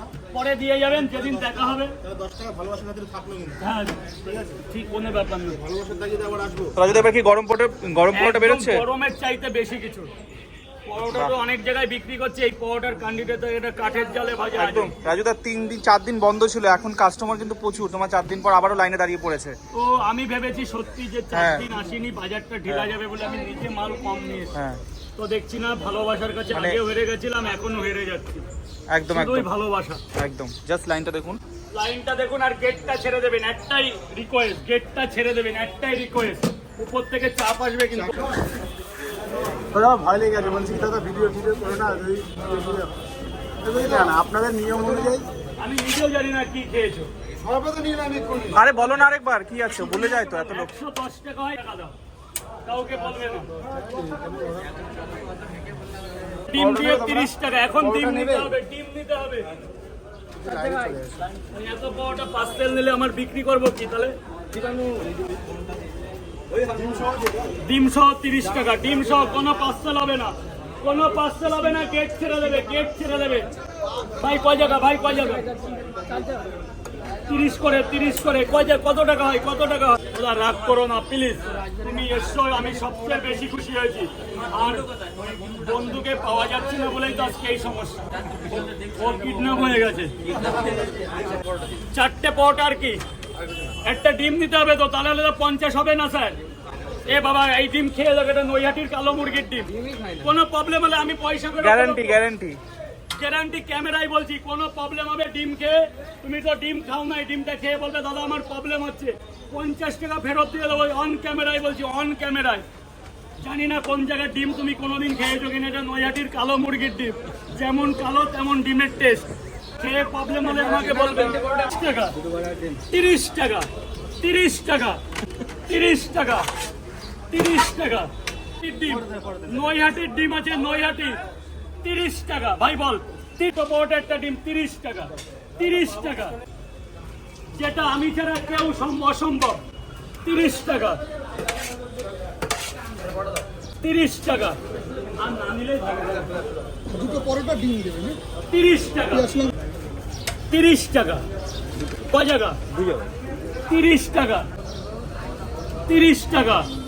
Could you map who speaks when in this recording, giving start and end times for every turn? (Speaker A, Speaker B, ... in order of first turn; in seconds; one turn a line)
Speaker A: 0.3-1.9
Speaker B: 2.0-3.5
Speaker A: 3.6-4.0
Speaker B: 4.2-4.6
Speaker A: 4.6-5.6
Speaker B: 5.6-6.8
Speaker C: 6.8-8.8
Speaker A: 8.1-10.1
Speaker A: 10.8-14.9
Speaker C: 11.0-11.4
Speaker C: 14.6-19.5
Speaker A: 19.7-24.6
Speaker C: 21.3-21.7
Speaker C: 22.7-22.9
Speaker C: 24.5-24.8
Speaker A: 25.1-28.4
Speaker C: 26.5-26.8
Speaker C: 28.9-29.5
Speaker A: 29.1-30.0
Speaker C: 30.1-31.4
Speaker A: 31.7-38.3
Speaker B: 39.7-42.9
Speaker B: 43.6-45.2
Speaker A: 45.6-47.1
Speaker B: 47.4-48.6
Speaker C: 48.5-50.7
Speaker A: 49.6-52.0
Speaker A: 52.6-53.5
Speaker B: 53.8-54.6
Speaker A: 56.5-59.5
Speaker B: 56.8-57.1
Speaker B: 58.0-58.4
Speaker B: 60.4-61.1
Speaker A: 61.4-64.2
Speaker B: 64.6-65.0
Speaker B: 66.6-67.4
Speaker A: 67.5-73.5
Speaker A: 74.1-75.5
Speaker A: 77.2-90.2
Speaker A: 91.9-93.0
Speaker A: 93.8-96.4
Speaker A: 97.1-102.2
Speaker C: 101.6-102.6
Speaker A: 103.2-112.7
Speaker A: 113.4-119.3
Speaker A: 119.8-122.2
Speaker A: 122.8-123.7
Speaker A: 124.2-125.0
Speaker A: 125.7-126.5
Speaker A: 127.3-131.2
Speaker A: 131.8-136.4
Speaker A: 137.5-139.6
Speaker A: 140.2-141.0
Speaker A: 143.8-144.6
Speaker A: 145.2-146.3
Speaker B: 146.9-148.2
Speaker A: 148.4-149.5
Speaker A: 150.5-151.2
Speaker A: 152.0-152.6
Speaker A: 153.7-154.5
Speaker A: 155.9-156.7